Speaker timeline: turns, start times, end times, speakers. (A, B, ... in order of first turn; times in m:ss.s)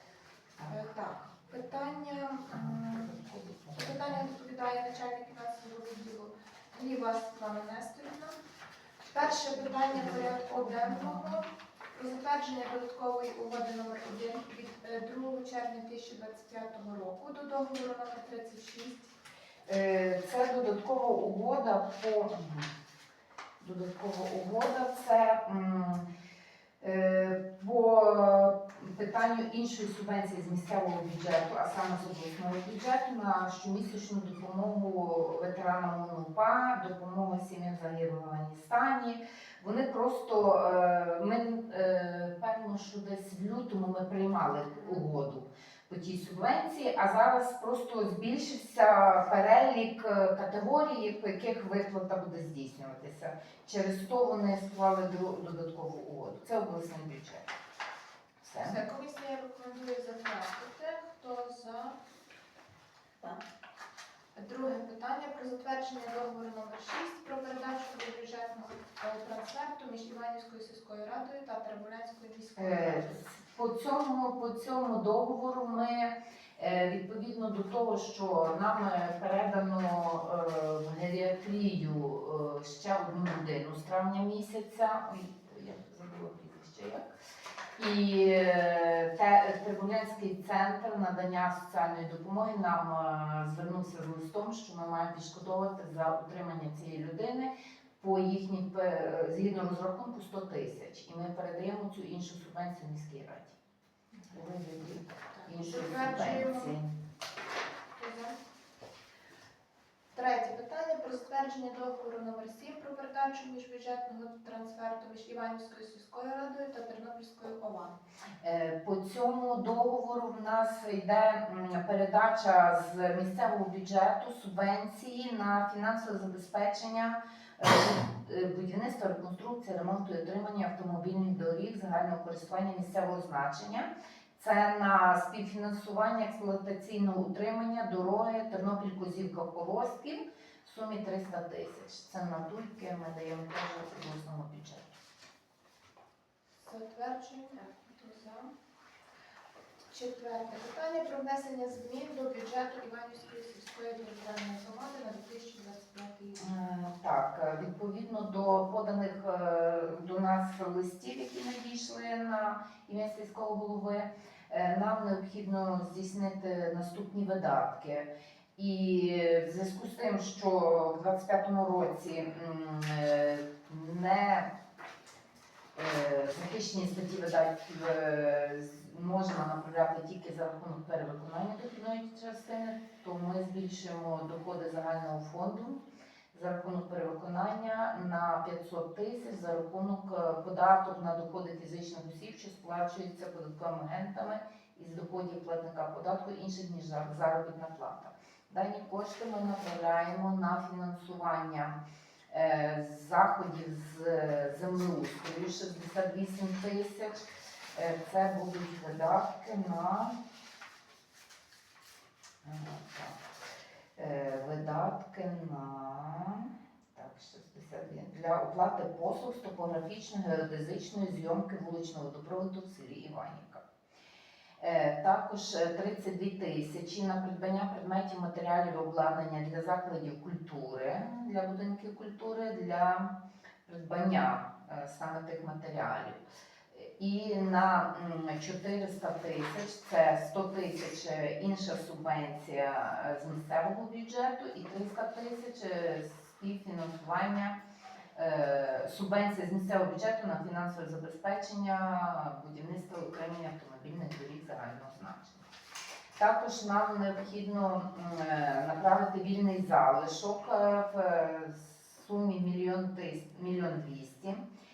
0:00.6-0:03.1 A
0:02.5-0:04.3 B
0:03.7-0:08.4 A
0:09.1-0:19.2 A
0:09.6-0:11.4 B
0:19.7-0:22.7 B
0:23.6-0:26.1 B
0:26.8-0:57.5 B
0:58.4-0:58.8 B
0:58.6-1:02.0 A
1:04.4-1:13.2 A
1:12.6-1:27.1 B
1:27.8-1:43.6 B
1:44.3-1:46.9 B
1:45.4-1:46.7 A
1:48.0-1:48.4 A
1:50.1-1:58.0 A
1:58.4-2:25.0 B
2:26.6-2:28.5 A
2:29.9-2:36.4 A
2:36.4-2:54.5 B
2:55.8-3:21.8 B
3:22.3-3:27.2 B
3:27.7-3:30.2 B
3:32.4-3:33.2 B
3:34.0-3:43.6 B
3:44.6-3:53.1 B
3:53.7-4:07.6 B
4:08.2-4:15.5 B
4:16.2-4:24.4 B